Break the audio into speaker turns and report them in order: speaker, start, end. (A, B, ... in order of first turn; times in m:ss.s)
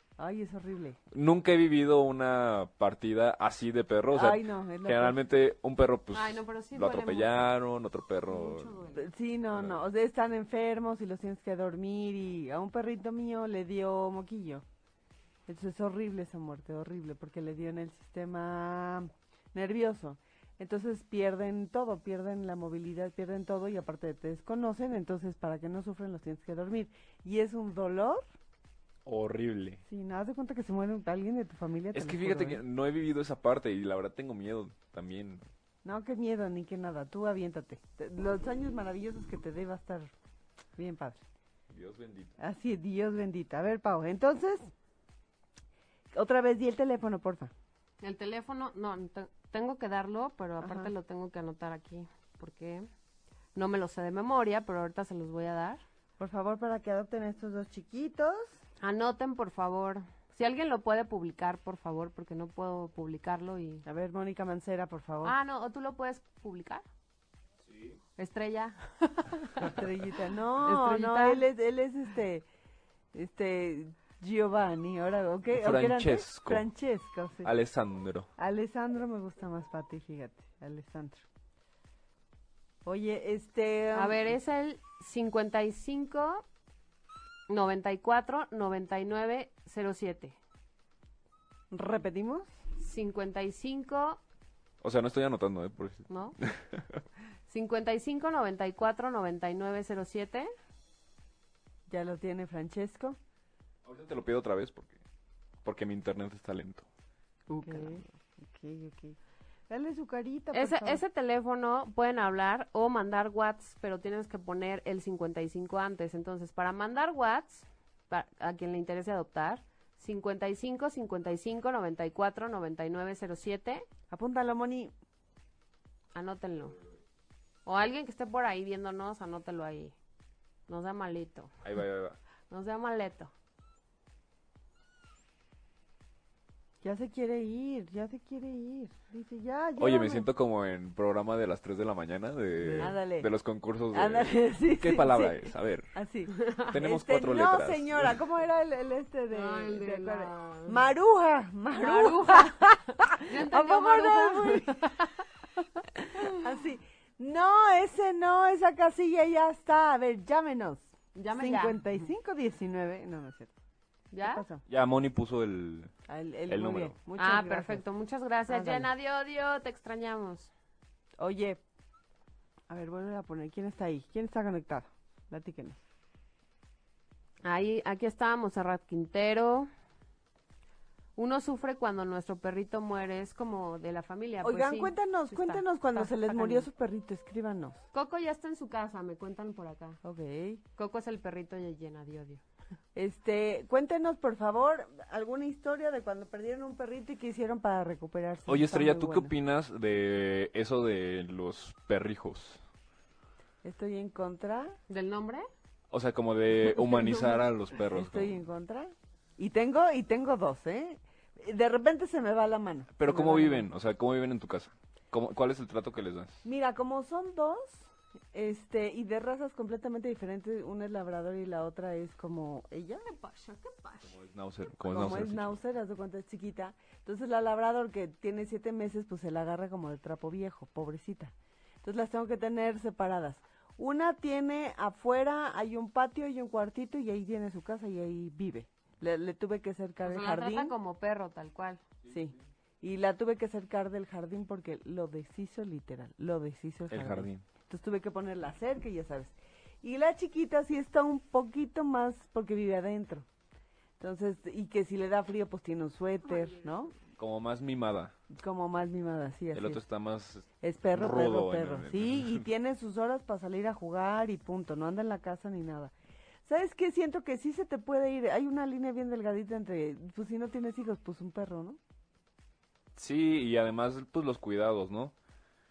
0:00.2-0:01.0 A
0:01.1-0:08.8 B
0:04.1-0:05.2 A
0:06.1-0:07.5 C
0:08.2-0:09.1 C
0:08.9-0:14.6 A
0:09.5-0:09.8 B
0:15.5-0:28.2 A
0:29.0-0:29.8 B
0:29.9-0:32.6 A
0:31.9-0:35.4 B
0:35.8-0:40.1 A
0:40.8-0:41.2 A
0:41.7-0:42.4 B
0:42.4-0:44.7 A
0:46.1-0:47.5 A
0:48.0-0:52.9 C
0:50.6-0:50.9 A
0:53.6-0:55.8 C
0:56.2-0:58.6 A
0:58.8-1:03.8 C
1:03.8-1:05.4 A
1:05.2-1:06.8 C
1:08.2-1:09.8 C
1:09.6-1:12.4 A
1:10.6-1:11.4 C
1:13.1-1:17.5 A
1:15.5-1:16.7 B
1:17.4-1:18.3 B
1:18.4-1:21.2 A
1:22.8-1:24.4 A
1:23.9-1:26.4 C
1:27.5-1:30.4 C
1:31.7-1:32.5 A
1:32.8-1:34.2 C
1:34.8-1:37.0 B
1:36.1-1:36.4 C
1:37.5-1:40.5 C
1:41.9-1:43.2 A
1:43.8-1:45.0 B
1:45.6-1:46.9 B
1:47.5-1:49.2 A
1:47.6-1:48.0 C
1:49.7-1:51.0 A
1:50.5-2:03.8 C
2:04.1-2:04.9 A
2:06.1-2:06.8 C
2:07.6-2:09.9 C
2:10.7-2:11.5 C
2:11.6-2:12.2 B
2:12.5-2:13.3 C
2:16.8-2:20.3 A
2:19.8-2:25.9 B
2:22.6-2:23.3 A
2:23.9-2:35.1 A
2:26.7-2:28.2 B
2:29.3-2:30.8 C
2:31.8-2:35.2 C
2:35.8-2:43.5 A
2:41.2-2:41.8 C
2:44.1-2:44.4 C
2:44.2-2:44.6 A
2:44.7-2:45.9 B
2:46.1-2:47.8 A
2:46.5-2:46.9 B
2:47.2-2:50.5 C
2:48.5-2:48.9 A
2:51.2-2:51.6 A
2:52.7-2:55.8 A
2:57.4-2:59.7 C
3:01.2-3:06.7 C
3:04.4-3:07.8 A
3:07.9-3:10.0 C
3:10.0-3:10.6 A
3:10.8-3:12.4 C
3:13.0-3:19.3 A
3:18.5-3:22.6 B
3:23.6-3:24.8 A
3:24.9-3:25.5 C
3:25.9-3:28.4 B
3:26.6-3:33.7 A
3:33.0-3:36.4 B
3:36.4-3:43.1 A
3:43.0-3:44.1 C
3:44.0-3:45.6 B
3:44.8-4:00.8 A
4:00.0-4:01.8 C
4:02.1-4:13.3 A
4:02.1-4:02.4 B
4:06.9-4:07.4 B
4:14.0-4:16.9 A
4:16.3-4:16.8 C
4:17.2-4:18.1 B
4:18.3-4:19.8 A
4:19.5-4:22.4 B
4:20.6-4:25.9 A
4:26.4-4:31.8 A
4:33.0-4:35.1 B